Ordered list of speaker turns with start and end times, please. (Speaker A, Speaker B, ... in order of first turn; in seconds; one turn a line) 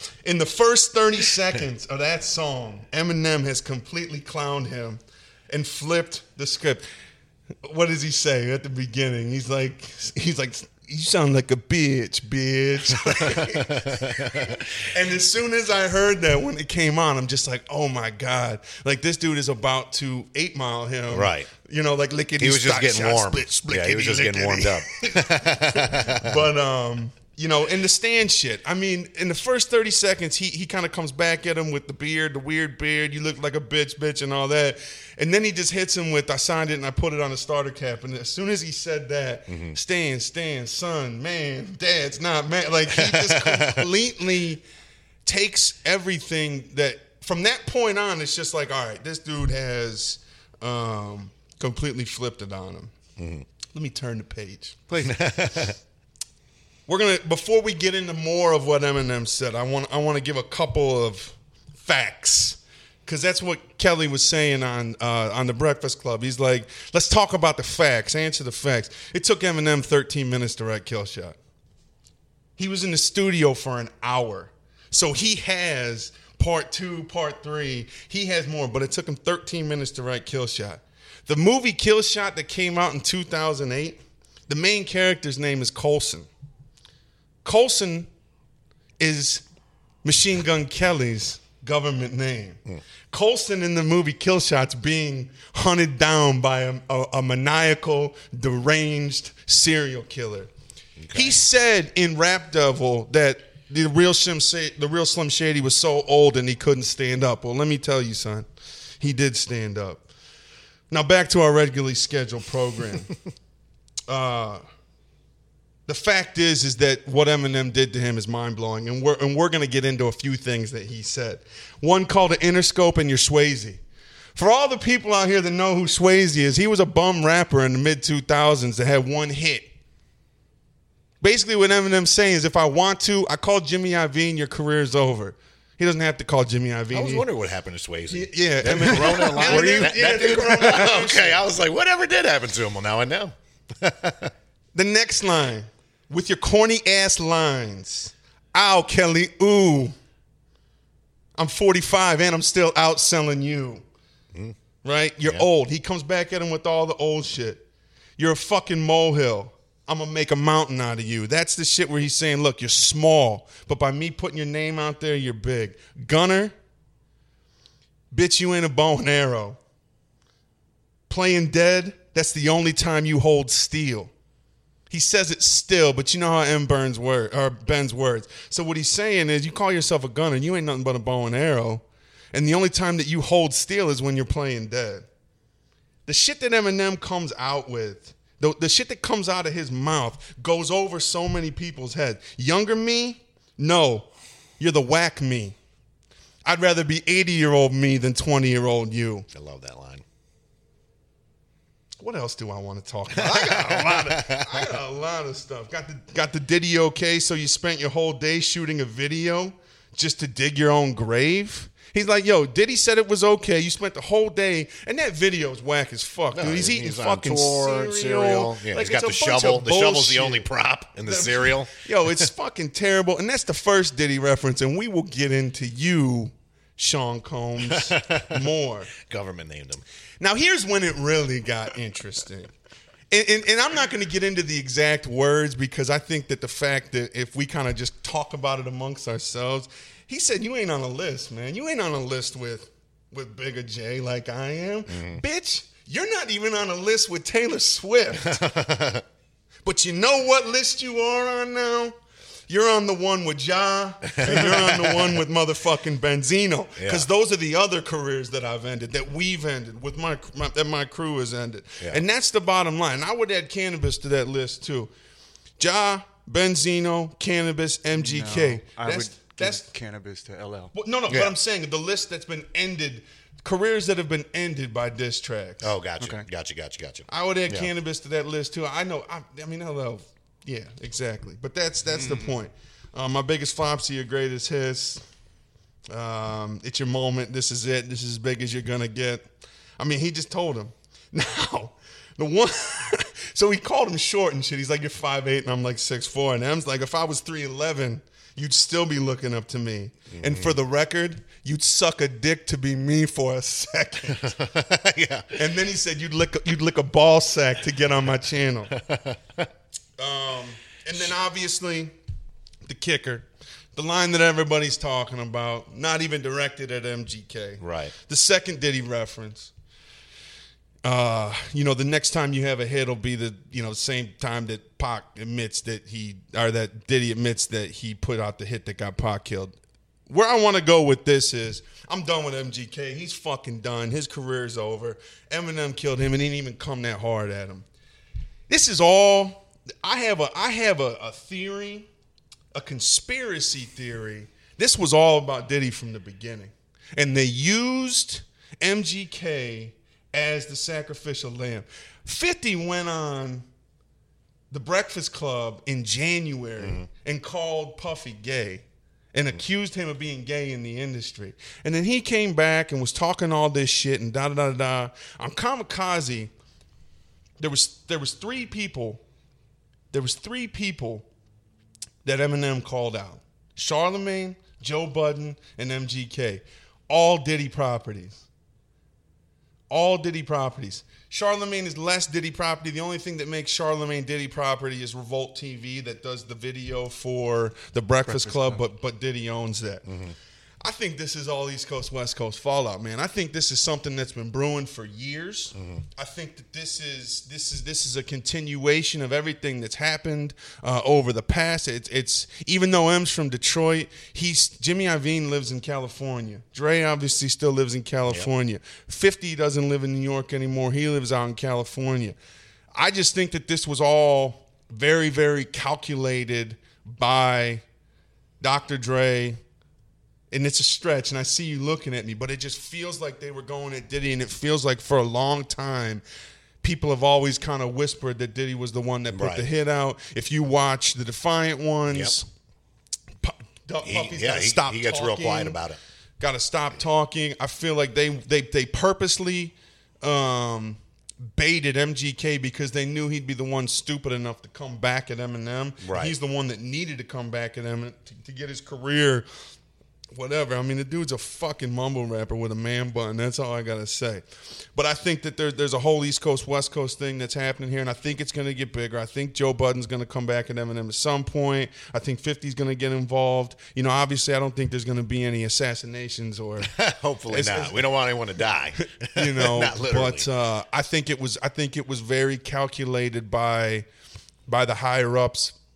Speaker A: 0.2-6.8
Speaker A: 7.6-44.6
Speaker B: 13.0-14.7
Speaker B: 21.1-21.5
Speaker B: 22.4-26.4
Speaker B: 39.5-39.8
Speaker B: 42.9-43.9
Speaker A: 45.2-52.9
Speaker B: 53.2-53.5
Speaker A: 53.7-54.8
Speaker C: 54.9-55.2
Speaker B: 55.0-55.8
Speaker A: 56.9-71.3
Speaker A: 72.6-86.3
Speaker A: 87.4-88.1
Speaker A: 89.0-89.4
Speaker A: 90.0-92.6
Speaker A: 93.1-100.5
Speaker B: 101.0-101.4
Speaker A: 101.1-108.5
Speaker A: 109.0-110.1
Speaker A: 110.9-113.1
Speaker A: 114.1-114.6
Speaker A: 115.9-123.8
Speaker A: 124.3-129.7
Speaker A: 131.2-137.3
Speaker B: 136.9-144.3
Speaker A: 138.1-141.4
Speaker C: 138.7-140.1
Speaker A: 144.7-149.9
Speaker A: 151.4-153.8
Speaker A: 154.8-157.6
Speaker A: 158.2-166.5
Speaker A: 168.1-169.6
Speaker A: 171.1-174.1
Speaker A: 174.9-185.0
Speaker A: 186.1-195.6
Speaker A: 196.4-199.3
Speaker B: 199.3-200.0
Speaker A: 202.0-220.5
Speaker B: 203.1-204.8
Speaker B: 216.3-222.3
Speaker A: 221.0-228.9
Speaker B: 227.6-228.4
Speaker B: 229.0-229.8
Speaker A: 230.2-232.5
Speaker A: 233.1-248.4
Speaker B: 244.9-245.2
Speaker B: 248.2-249.0
Speaker A: 249.6-251.9
Speaker A: 252.5-264.9
Speaker B: 254.1-255.2
Speaker B: 256.8-257.1
Speaker A: 265.6-269.7
Speaker C: 267.9-270.7
Speaker A: 270.7-275.7
Speaker B: 271.1-271.4
Speaker B: 275.6-277.7
Speaker A: 277.1-285.0
Speaker C: 281.9-282.2
Speaker A: 285.9-289.3
Speaker A: 289.8-304.3
Speaker B: 300.1-300.6
Speaker B: 304.1-305.4
Speaker A: 305.3-308.7
Speaker B: 308.7-309.5
Speaker A: 310.0-311.9
Speaker A: 312.6-319.5
Speaker B: 317.6-317.9
Speaker A: 320.8-329.6
Speaker A: 330.1-337.6
Speaker A: 338.5-341.9
Speaker A: 342.5-353.5
Speaker A: 354.5-366.3
Speaker B: 356.6-356.9
Speaker A: 367.4-369.0
Speaker A: 369.9-371.1
Speaker A: 372.0-378.2
Speaker A: 379.7-389.9
Speaker C: 388.1-388.6
Speaker B: 389.9-390.1
Speaker A: 390.6-412.1
Speaker B: 395.5-395.8
Speaker A: 412.7-417.6
Speaker A: 418.4-419.4
Speaker A: 420.3-426.0
Speaker A: 426.6-432.3
Speaker B: 429.1-429.5
Speaker A: 433.2-435.6
Speaker B: 433.8-435.8
Speaker A: 436.2-449.3
Speaker B: 445.8-446.1
Speaker A: 450.1-466.7
Speaker B: 466.6-470.3
Speaker A: 467.3-467.9
Speaker A: 469.0-473.9
Speaker A: 474.5-475.6